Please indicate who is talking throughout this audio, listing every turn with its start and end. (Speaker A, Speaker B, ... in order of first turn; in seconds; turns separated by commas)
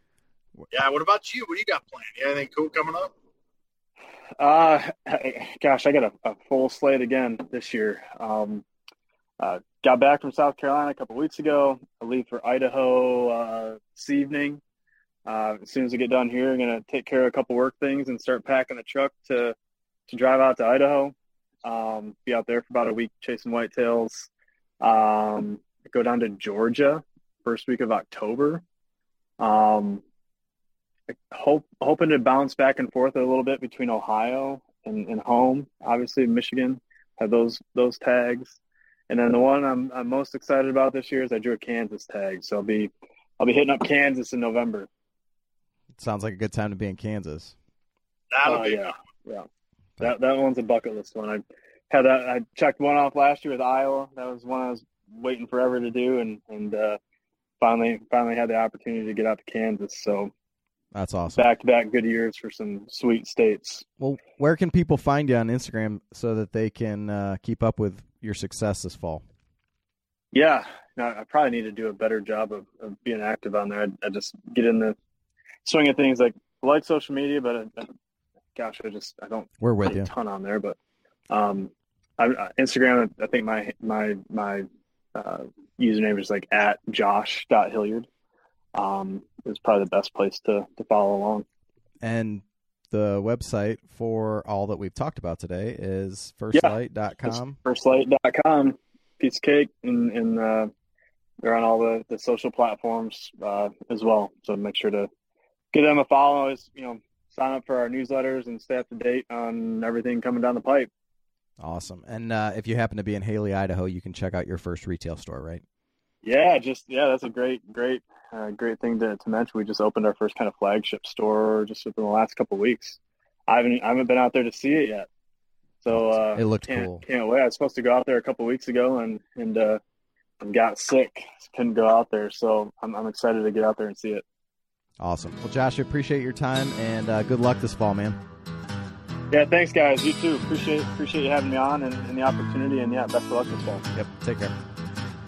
Speaker A: 0.7-3.1, Speaker B: 4.4-8.6, Speaker B: 9.4-14.6, Speaker B: 15.2-19.6, Speaker B: 20.1-24.3, Speaker B: 24.8-28.6, Speaker B: 29.4-30.0, Speaker B: 31.1-44.9, Speaker C: 46.0-47.5, Speaker A: 48.3-48.9, Speaker B: 48.4-49.5, Speaker B: 50.0-57.0, Speaker B: 57.6-60.3, Speaker C: 60.9-61.5, Speaker B: 61.4-63.9, Speaker C: 64.0-69.2, Speaker B: 70.3-75.0, Speaker B: 75.6-77.9, Speaker B: 78.5-80.8, Speaker C: 79.6-80.1, Speaker B: 81.3-88.1, Speaker B: 88.7-91.4, Speaker C: 92.0-97.6, Speaker B: 97.3-100.7, Speaker B: 101.4-105.1, Speaker B: 105.7-110.9, Speaker C: 111.6-115.6, Speaker B: 116.2-125.1, Speaker B: 125.8-129.8, Speaker C: 125.9-127.0, Speaker B: 130.4-134.2, Speaker C: 135.0-138.2, Speaker B: 139.3-143.8, Speaker C: 143.9-144.5